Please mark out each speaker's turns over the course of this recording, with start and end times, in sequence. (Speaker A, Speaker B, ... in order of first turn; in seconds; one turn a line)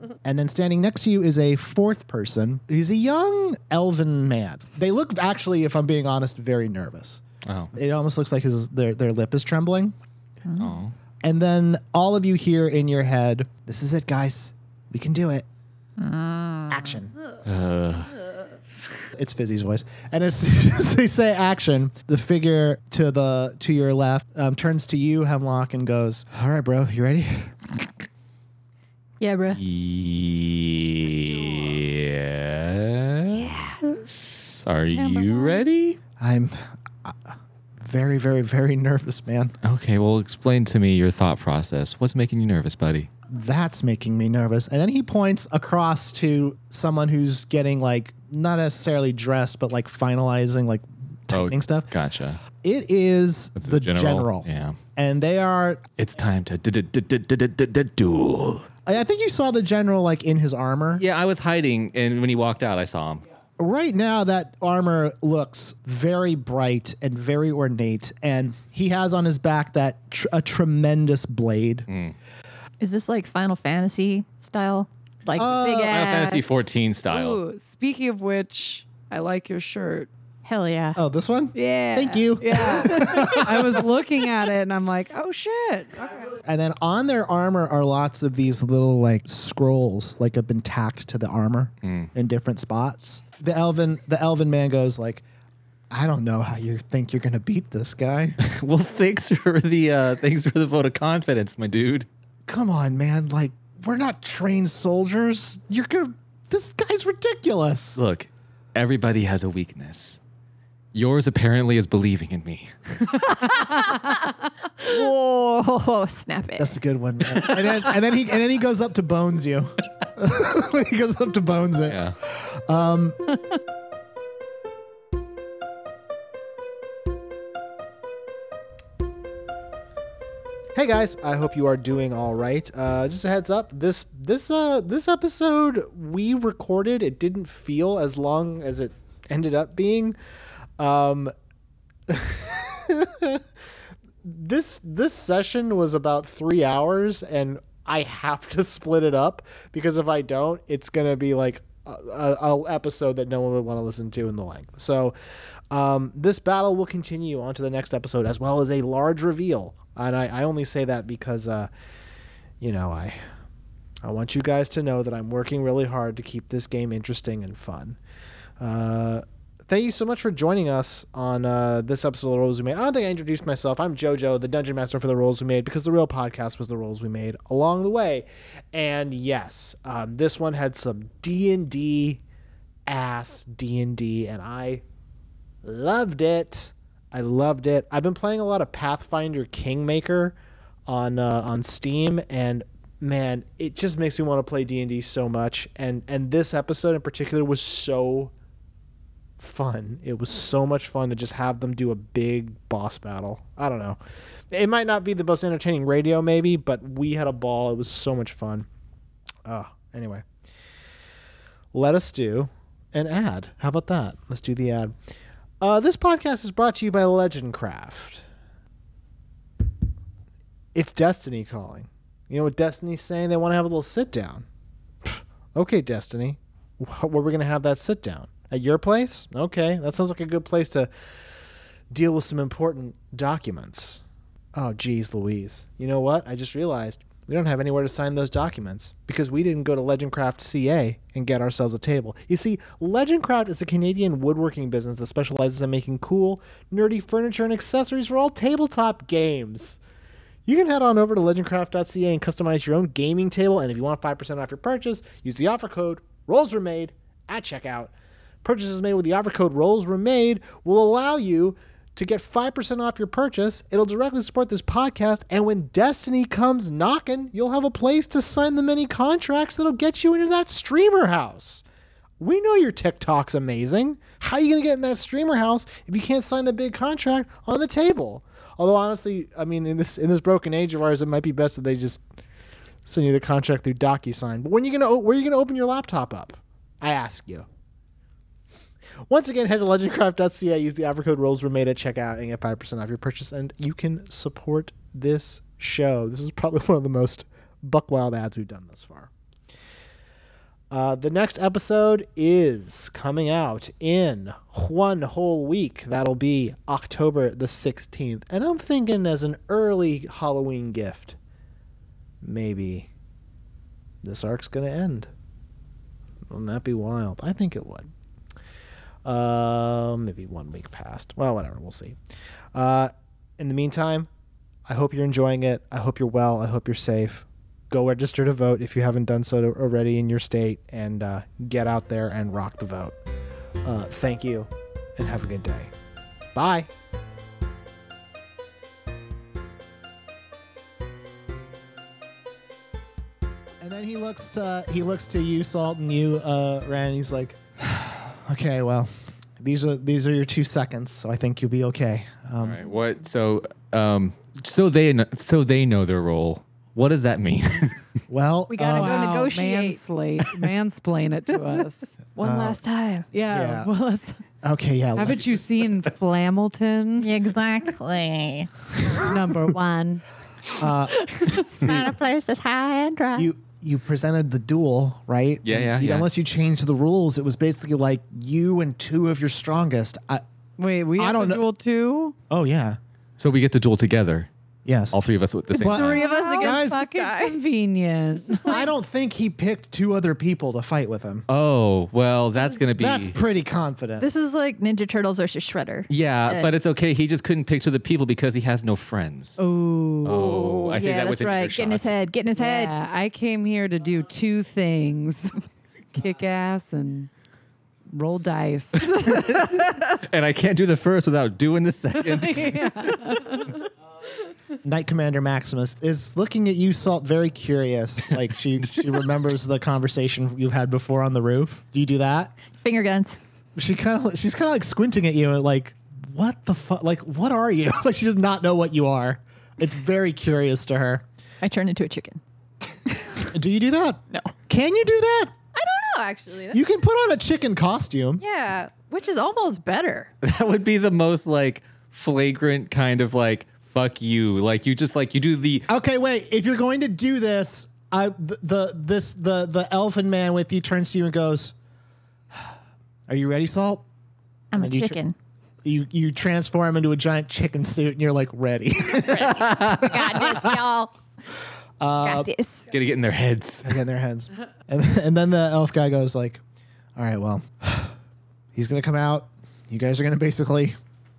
Speaker A: 0.2-7.2
Speaker B: 7.5-7.7
Speaker A: 7.7-9.9
Speaker C: 10.5-10.7
Speaker B: 10.6-10.9
Speaker A: 11.2-15.5
Speaker C: 16.0-16.9
Speaker A: 16.7-17.1
Speaker B: 17.4-18.2
Speaker A: 19.1-27.9
Speaker C: 29.2-29.6
Speaker B: 29.5-36.0
Speaker C: 31.4-31.7
Speaker C: 34.9-35.6
Speaker A: 36.2-39.5
Speaker B: 39.6-43.1
Speaker A: 43.3-51.9
Speaker B: 51.3-52.4
Speaker A: 52.6-55.9
Speaker B: 53.6-54.8
Speaker B: 56.0-58.7
Speaker A: 58.9-61.0
Speaker B: 61.0-63.2
Speaker A: 63.6-71.9
Speaker B: 71.9-72.2
Speaker C: 72.8-76.5
Speaker A: 75.4-75.9
Speaker B: 75.8-77.4
Speaker D: 77.1-80.1
Speaker C: 80.4-81.0
Speaker A: 81.0-83.9
Speaker D: 81.5-86.3
Speaker A: 86.3-95.2
Speaker B: 91.8-92.1
Speaker A: 95.9-98.4
Speaker B: 98.4-102.1
Speaker A: 102.5-108.0
Speaker B: 108.0-110.2
Speaker B: 110.9-113.3
Speaker C: 113.2-116.8
Speaker A: 116.6-123.3
Speaker B: 121.9-122.2
Speaker A: 130.7-140.2
Speaker A: 140.8-141.3
Speaker A: 142.1-143.4
Speaker A: 144.2-155.2
Speaker A: 155.7-161.7
Speaker A: 162.6-163.3
Speaker A: 164.0-168.0
Speaker A: 168.6-182.2
Speaker A: 182.9-184.8
Speaker A: 185.6-190.3
Speaker A: 190.9-198.3
Speaker A: 199.4-204.0
Speaker A: 204.5-208.7
Speaker A: 209.4-210.2
Speaker A: 211.7-214.9
Speaker A: 215.6-218.2
Speaker A: 220.7-224.4
Speaker A: 225.0-230.9
Speaker A: 231.9-234.0
Speaker A: 234.6-249.8
Speaker A: 250.5-257.9
Speaker A: 258.4-271.6
Speaker A: 272.2-282.0
Speaker A: 282.9-287.5
Speaker A: 289.1-299.1
Speaker A: 300.7-311.2
Speaker A: 312.2-312.9
Speaker A: 314.0-315.1
Speaker A: 316.3-317.9
Speaker A: 319.1-322.0
Speaker A: 322.5-324.1
Speaker A: 324.7-333.0
Speaker A: 333.6-335.7
Speaker A: 336.3-336.7
Speaker A: 343.6-352.6
Speaker B: 352.4-357.8
Speaker A: 358.1-359.0
Speaker C: 358.5-359.8
Speaker D: 358.7-362.0
Speaker C: 362.2-363.1
Speaker A: 362.2-362.6
Speaker D: 363.1-364.2
Speaker A: 363.3-363.7
Speaker A: 364.4-365.5
Speaker D: 364.9-367.1
Speaker C: 367.0-368.5
Speaker D: 368.9-370.0
Speaker A: 370.5-371.9
Speaker D: 371.0-371.5
Speaker C: 371.6-373.3
Speaker A: 373.1-380.2
Speaker B: 375.4-376.1
Speaker D: 380.6-382.1
Speaker A: 381.0-381.4
Speaker A: 382.3-382.8
Speaker B: 383.2-384.3
Speaker A: 384.6-385.0
Speaker B: 384.9-386.0
Speaker A: 385.5-386.9
Speaker C: 385.6-387.4
Speaker D: 385.7-388.6
Speaker C: 388.2-388.7
Speaker A: 388.5-391.3
Speaker B: 391.3-393.2
Speaker A: 392.8-394.1
Speaker C: 394.0-396.5
Speaker B: 395.9-399.4
Speaker D: 399.4-400.2
Speaker B: 400.0-401.9
Speaker C: 400.1-402.7
Speaker D: 402.4-405.4
Speaker D: 405.9-407.1
Speaker D: 407.9-409.4
Speaker B: 408.9-413.4
Speaker D: 412.0-413.6
Speaker A: 414.6-422.3
Speaker C: 422.6-423.2
Speaker A: 423.6-431.1
Speaker C: 431.4-432.2
Speaker C: 432.9-433.3
Speaker A: 433.3-435.4
Speaker C: 435.5-436.6
Speaker A: 436.5-438.2
Speaker C: 438.2-440.1
Speaker B: 440.2-445.7
Speaker A: 445.7-451.5
Speaker A: 453.1-453.8
Speaker C: 454.5-455.1
Speaker A: 454.6-455.0
Speaker A: 455.6-460.6
Speaker C: 458.9-460.9
Speaker B: 459.1-459.8
Speaker A: 461.8-462.3
Speaker C: 462.0-462.6
Speaker B: 462.7-463.8
Speaker A: 463.6-466.4
Speaker A: 467.0-467.9
Speaker A: 468.5-470.8